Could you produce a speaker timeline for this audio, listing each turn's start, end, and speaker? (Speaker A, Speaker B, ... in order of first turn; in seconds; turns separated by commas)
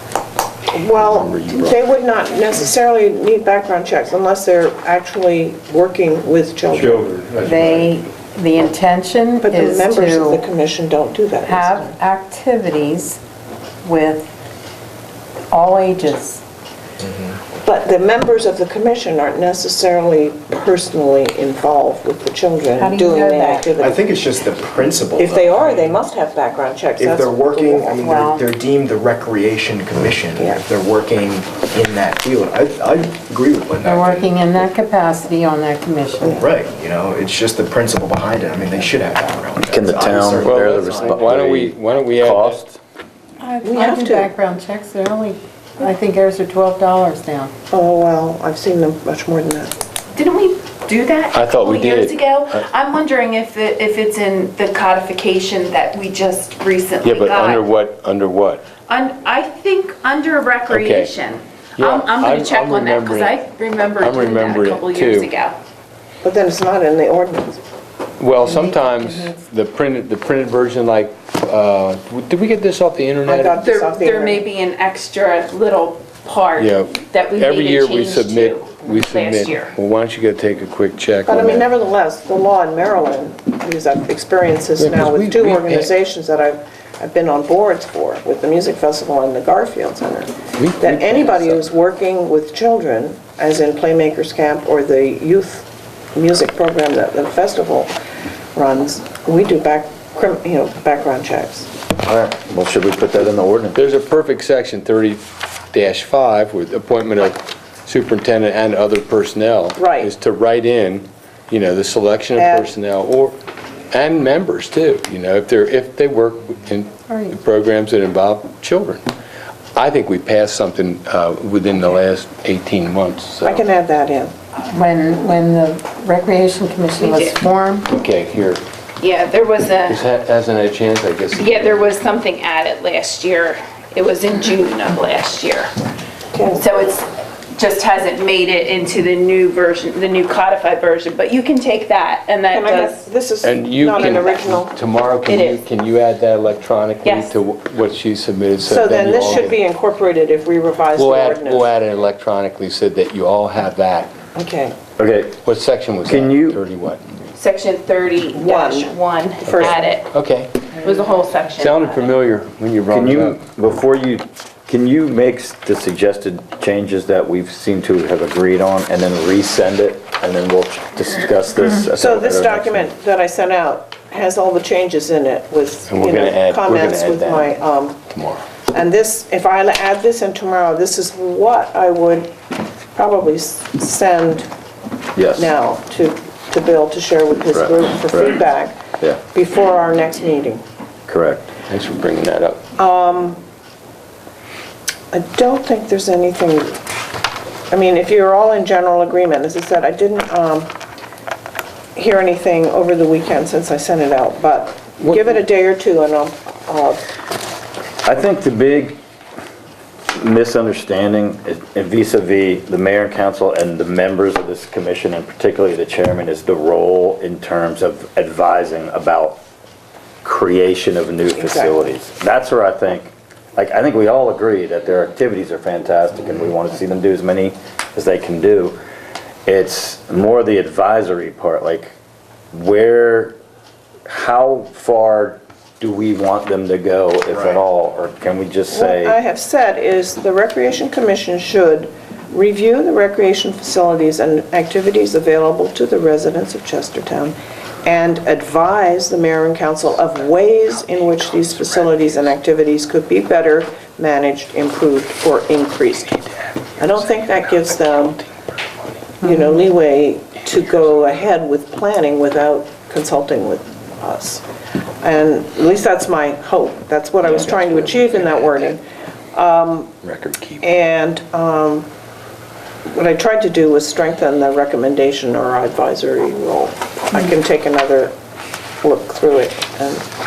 Speaker A: 0.7-7.1, Speaker B: 0.9-1.8, Speaker B: 6.7-8.0, Speaker C: 7.4-10.4, Speaker A: 9.4-12.0, Speaker C: 11.4-13.2, Speaker C: 13.8-14.4, Speaker C: 15.5-16.4, Speaker D: 17.0-17.4, Speaker A: 17.6-24.0, Speaker C: 22.8-23.8, Speaker D: 23.8-26.1, Speaker A: 25.2-28.0, Speaker D: 27.0-34.3, Speaker C: 28.0-28.4, Speaker A: 30.4-30.6, Speaker C: 33.8-36.4, Speaker D: 36.3-41.3, Speaker E: 39.7-42.8, Speaker B: 40.4-42.6, Speaker C: 43.4-47.5, Speaker A: 43.6-44.3, Speaker A: 47.7-49.8, Speaker F: 50.1-57.7, Speaker B: 51.3-52.6, Speaker B: 57.0-58.7, Speaker F: 58.9-65.6, Speaker B: 60.7-61.1, Speaker B: 61.8-63.3, Speaker B: 64.0-65.3, Speaker A: 66.2-67.6, Speaker B: 68.2-73.5, Speaker C: 68.5-69.3, Speaker A: 73.2-74.5, Speaker F: 73.5-79.8, Speaker B: 76.6-81.7, Speaker A: 81.2-97.9, Speaker B: 84.8-85.9, Speaker B: 90.6-91.6, Speaker A: 98.5-101.7, Speaker E: 102.0-103.8, Speaker B: 103.8-113.4, Speaker A: 109.8-110.1, Speaker A: 112.4-112.7, Speaker B: 113.9-119.0, Speaker C: 117.1-117.4, Speaker B: 119.8-123.6, Speaker A: 123.4-124.3, Speaker C: 124.7-127.9, Speaker F: 127.0-127.4, Speaker B: 127.9-128.6, Speaker F: 129.0-130.0, Speaker B: 129.9-131.9, Speaker F: 131.3-135.7, Speaker A: 136.3-136.7, Speaker F: 136.6-143.1, Speaker A: 142.5-144.7, Speaker B: 143.4-149.6, Speaker F: 145.3-145.6, Speaker F: 147.0-147.3, Speaker A: 148.6-151.7, Speaker B: 151.0-154.1, Speaker A: 154.3-154.8, Speaker E: 155.0-155.4, Speaker B: 155.4-157.0, Speaker E: 156.1-156.6, Speaker F: 157.3-160.1, Speaker A: 158.3-159.8, Speaker B: 159.6-160.5, Speaker F: 160.7-162.1, Speaker B: 161.6-163.4, Speaker E: 162.9-172.9, Speaker A: 172.0-178.0, Speaker B: 175.9-177.5, Speaker B: 178.1-178.4, Speaker A: 178.7-182.3, Speaker A: 182.9-184.5, Speaker E: 185.2-185.5, Speaker A: 185.4-188.8, Speaker E: 187.5-188.4, Speaker A: 189.3-190.6, Speaker E: 191.1-191.5, Speaker B: 191.7-192.6, Speaker A: 192.8-193.4, Speaker A: 195.1-196.8, Speaker A: 197.7-200.7, Speaker A: 202.0-207.0, Speaker E: 208.0-209.0, Speaker E: 210.2-219.4, Speaker E: 220.2-228.8, Speaker A: 221.3-221.9, Speaker E: 229.5-231.9, Speaker E: 232.5-233.4, Speaker E: 234.1-239.2, Speaker D: 237.3-237.6, Speaker A: 238.7-256.2, Speaker A: 256.8-258.2, Speaker A: 259.2-264.4, Speaker A: 265.0-270.0, Speaker B: 267.4-268.6, Speaker B: 270.0-270.7, Speaker A: 270.6-271.9, Speaker A: 272.9-278.1, Speaker A: 278.8-280.1